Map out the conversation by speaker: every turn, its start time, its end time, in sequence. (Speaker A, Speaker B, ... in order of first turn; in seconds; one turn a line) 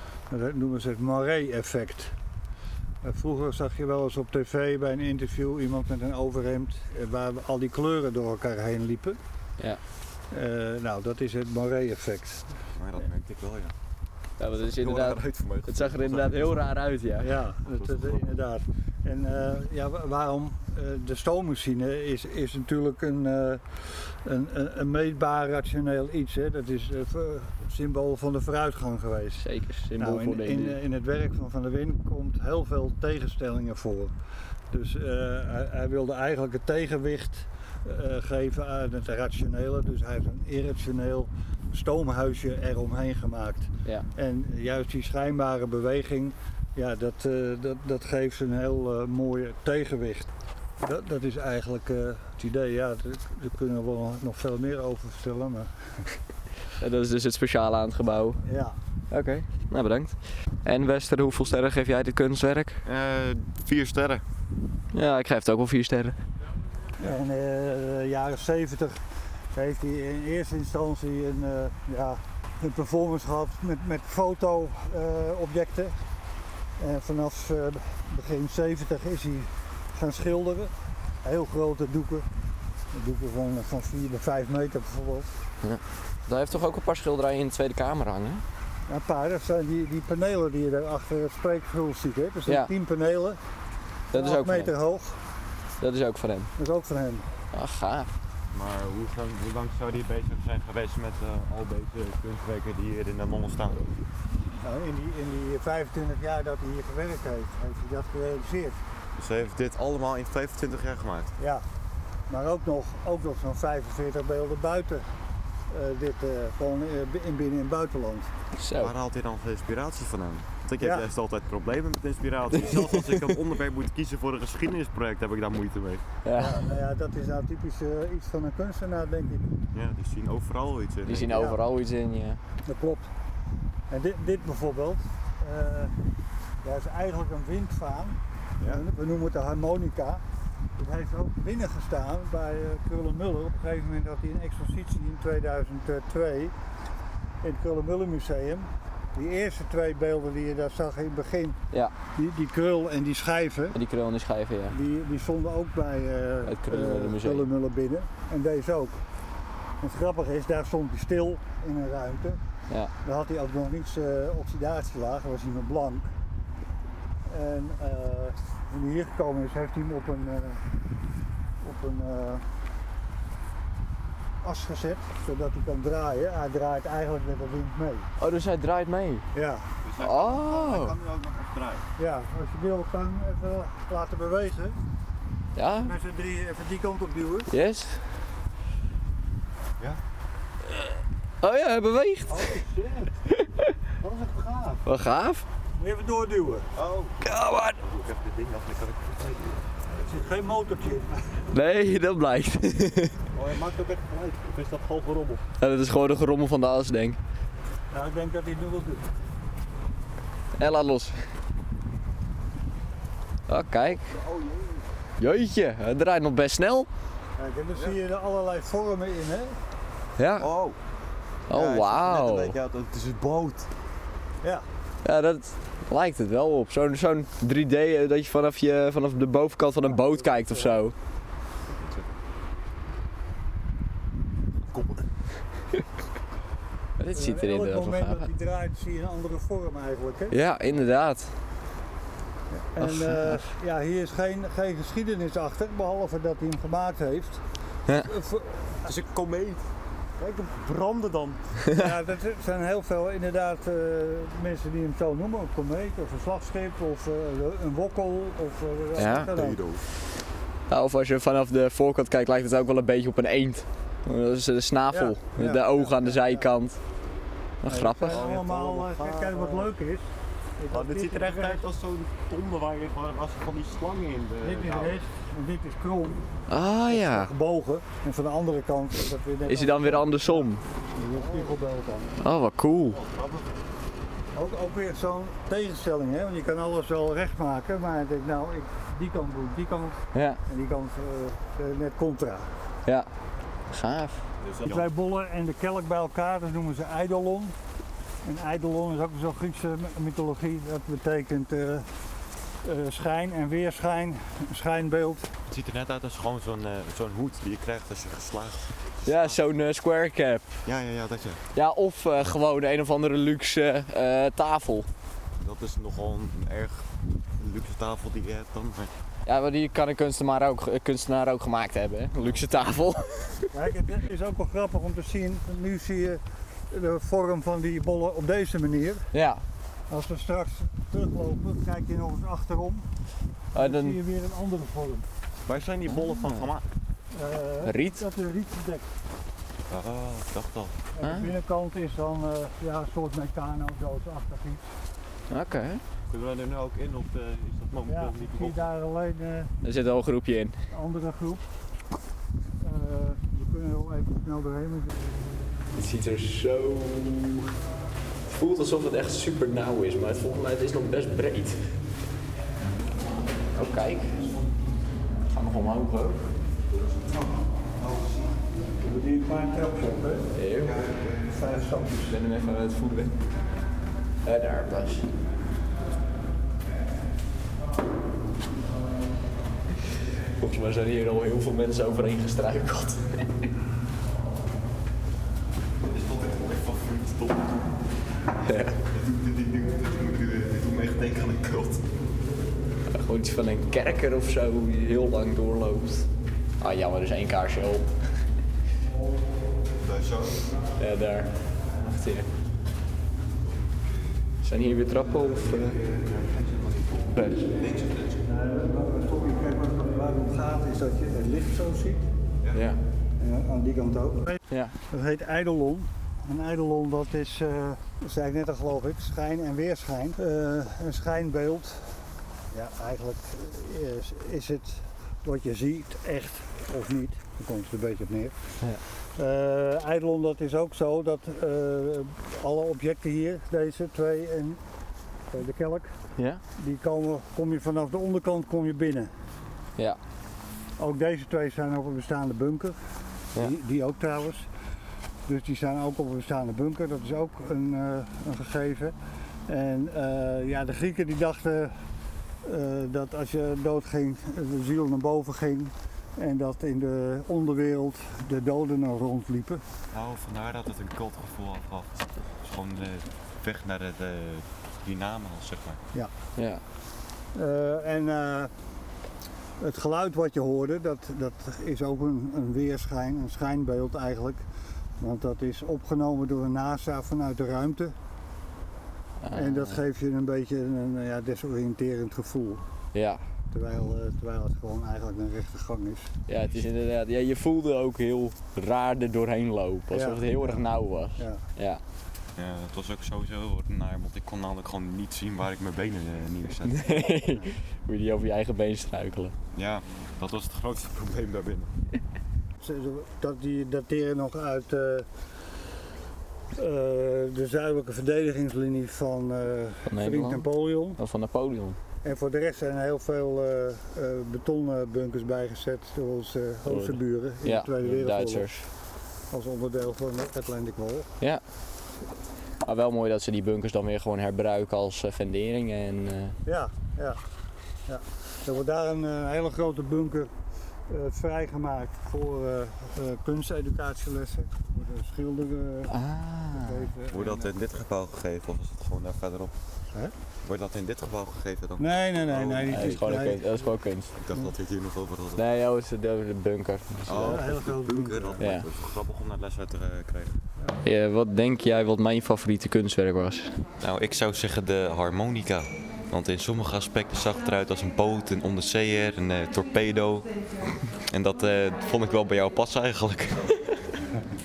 Speaker A: 0.3-2.1
Speaker A: 3.0-9.2
Speaker A: 10.3-12.5
Speaker B: 12.8-13.7
Speaker C: 14.4-17.4
Speaker B: 14.5-16.8
Speaker A: 17.2-29.5
Speaker B: 17.7-18.2
Speaker C: 29.4-30.8
Speaker A: 30.0-34.1
Speaker A: 34.7-50.3
Speaker A: 50.8-56.2
Speaker C: 56.8-58.4
Speaker A: 58.4-58.8
Speaker C: 59.1-62.8
Speaker B: 62.9-64.2
Speaker C: 64.9-66.2
Speaker A: 67.0-69.0
Speaker A: 69.5-76.0
Speaker A: 76.8-80.7
Speaker A: 81.2-82.3
Speaker A: 82.9-85.3
Speaker C: 85.6-88.5
Speaker A: 88.9-93.4
Speaker C: 94.1-94.7
Speaker A: 94.1-95.2
Speaker C: 95.8-96.5
Speaker A: 96.6-97.3
Speaker C: 97.5-98.2
Speaker B: 98.5-103.9
Speaker A: 104.6-108.8
Speaker B: 109.2-111.3
Speaker A: 111.4-111.7
Speaker A: 112.3-115.1
Speaker A: 115.7-118.3
Speaker C: 118.5-118.9
Speaker B: 118.8-126.0
Speaker A: 120.8-121.1
Speaker C: 122.5-123.4
Speaker C: 126.2-126.6
Speaker A: 126.3-129.6
Speaker B: 129.7-131.4
Speaker C: 131.1-132.4
Speaker A: 131.3-131.6
Speaker A: 132.7-133.1
Speaker A: 133.9-135.9
Speaker A: 136.6-140.2
Speaker A: 140.8-146.5
Speaker A: 147.4-151.6
Speaker C: 151.7-152.0
Speaker A: 152.1-153.8
Speaker C: 153.7-154.8
Speaker A: 154.7-159.0
Speaker C: 156.4-157.5
Speaker A: 159.8-162.4
Speaker C: 162.7-162.9
Speaker A: 163.0-166.1
Speaker A: 167.3-170.6
Speaker A: 171.6-172.4
Speaker A: 174.4-178.1
Speaker C: 178.2-179.3
Speaker A: 179.3-179.8
Speaker B: 179.8-181.9
Speaker C: 180.0-181.0
Speaker A: 182.0-184.8
Speaker C: 185.6-185.9
Speaker A: 185.8-187.5
Speaker C: 187.5-188.2
Speaker C: 191.4-192.6
Speaker A: 192.3-193.1
Speaker C: 193.3-193.7
Speaker A: 194.0-194.5
Speaker B: 194.3-194.7
Speaker C: 194.8-195.5
Speaker A: 195.8-196.7
Speaker B: 196.8-197.2
Speaker C: 197.2-197.8
Speaker B: 197.8-199.6
Speaker A: 199.9-201.4
Speaker C: 201.5-203.2
Speaker B: 203.3-205.4
Speaker C: 205.6-207.2
Speaker A: 207.9-209.1
Speaker C: 210.6-211.3
Speaker C: 213.5-214.1
Speaker B: 213.8-214.8
Speaker C: 215.2-216.9
Speaker A: 217.4-219.6
Speaker C: 220.2-220.5
Speaker B: 220.4-220.8
Speaker C: 221.5-222.5
Speaker B: 221.5-223.7
Speaker A: 224.4-224.7
Speaker C: 225.0-231.0
Speaker A: 229.8-230.8
Speaker B: 231.8-232.1
Speaker B: 234.6-235.1
Speaker C: 237.0-238.3
Speaker A: 237.1-240.4
Speaker C: 240.3-241.4
Speaker A: 242.5-248.9
Speaker C: 242.8-243.5
Speaker C: 247.9-248.1
Speaker B: 248.8-249.7
Speaker B: 250.2-251.5
Speaker A: 251.7-259.6
Speaker C: 259.0-259.4
Speaker B: 259.0-259.9
Speaker C: 260.7-266.8
Speaker A: 264.9-266.5
Speaker C: 267.6-268.2
Speaker A: 267.7-271.7
Speaker B: 268.1-269.7
Speaker B: 270.7-275.0
Speaker A: 274.4-276.3
Speaker C: 276.5-277.3
Speaker A: 276.9-282.2
Speaker C: 279.4-280.6
Speaker B: 281.1-281.6
Speaker C: 282.2-283.0
Speaker B: 282.9-283.5
Speaker A: 284.3-292.5
Speaker C: 290.1-290.4
Speaker C: 292.9-293.1
Speaker C: 293.7-294.3
Speaker B: 294.4-294.9
Speaker A: 294.6-297.6
Speaker A: 298.2-301.9
Speaker A: 302.6-305.3
Speaker B: 305.5-309.4
Speaker C: 309.0-310.6
Speaker B: 310.6-311.4
Speaker C: 311.5-314.9
Speaker B: 315.4-318.9
Speaker C: 319.2-323.6
Speaker B: 322.2-322.4
Speaker A: 323.5-329.1
Speaker C: 329.1-329.4
Speaker A: 329.9-332.9
Speaker C: 333.5-334.0
Speaker A: 333.5-335.1
Speaker B: 335.5-336.6
Speaker A: 337.1-338.9
Speaker C: 337.6-338.0
Speaker B: 339.7-340.7
Speaker A: 341.0-344.7
Speaker C: 341.0-341.3
Speaker C: 345.3-345.8
Speaker B: 346.1-348.7
Speaker A: 347.9-349.5
Speaker C: 349.6-350.6
Speaker A: 350.7-351.4
Speaker A: 352.6-355.0
Speaker C: 355.7-357.5
Speaker C: 358.3-361.8
Speaker C: 363.5-364.3
Speaker C: 365.3-366.3
Speaker A: 368.7-370.4
Speaker C: 370.3-371.0
Speaker B: 370.6-370.9
Speaker A: 371.2-372.1
Speaker C: 371.9-373.2
Speaker C: 374.2-375.1
Speaker C: 380.4-383.5
Speaker B: 385.8-387.7
Speaker C: 388.4-388.8
Speaker B: 388.9-391.8
Speaker C: 392.9-398.1
Speaker B: 399.8-400.5
Speaker C: 400.7-402.3
Speaker C: 404.4-405.8
Speaker B: 405.4-408.2
Speaker C: 407.1-407.6
Speaker A: 408.2-412.1
Speaker C: 412.5-412.8
Speaker A: 413.2-422.0
Speaker C: 414.5-414.8
Speaker A: 422.5-434.6
Speaker A: 435.3-435.9
Speaker C: 436.2-436.4
Speaker A: 436.6-439.1
Speaker A: 440.8-442.8
Speaker A: 443.3-444.5
Speaker A: 445.3-448.9
Speaker A: 449.5-451.8
Speaker A: 452.4-459.6
Speaker B: 459.9-465.8
Speaker C: 466.4-466.6
Speaker A: 467.3-468.5
Speaker A: 469.6-474.4
Speaker A: 475.0-477.9
Speaker C: 479.2-479.8
Speaker A: 479.3-482.6
Speaker C: 482.9-483.3
Speaker A: 483.5-486.1
Speaker C: 486.3-491.8
Speaker A: 489.9-491.4
Speaker B: 492.4-497.0
Speaker C: 496.7-499.4
Speaker A: 497.3-497.5
Speaker B: 499.5-501.7
Speaker A: 502.6-505.1
Speaker A: 506.5-511.0
Speaker C: 509.9-511.8
Speaker A: 512.0-518.5
Speaker C: 516.6-518.7
Speaker A: 519.3-521.1
Speaker C: 522.6-526.4
Speaker A: 526.5-527.2
Speaker A: 527.9-530.3
Speaker A: 530.9-536.0
Speaker C: 535.9-536.9
Speaker A: 536.5-537.5
Speaker B: 537.1-539.5
Speaker B: 540.4-543.2
Speaker A: 541.8-543.6
Speaker C: 542.7-544.1
Speaker B: 544.1-545.4
Speaker C: 545.4-547.3
Speaker B: 547.1-550.4
Speaker A: 547.2-548.4
Speaker C: 548.4-548.7
Speaker C: 550.8-553.6
Speaker B: 553.8-560.4
Speaker B: 561.1-563.6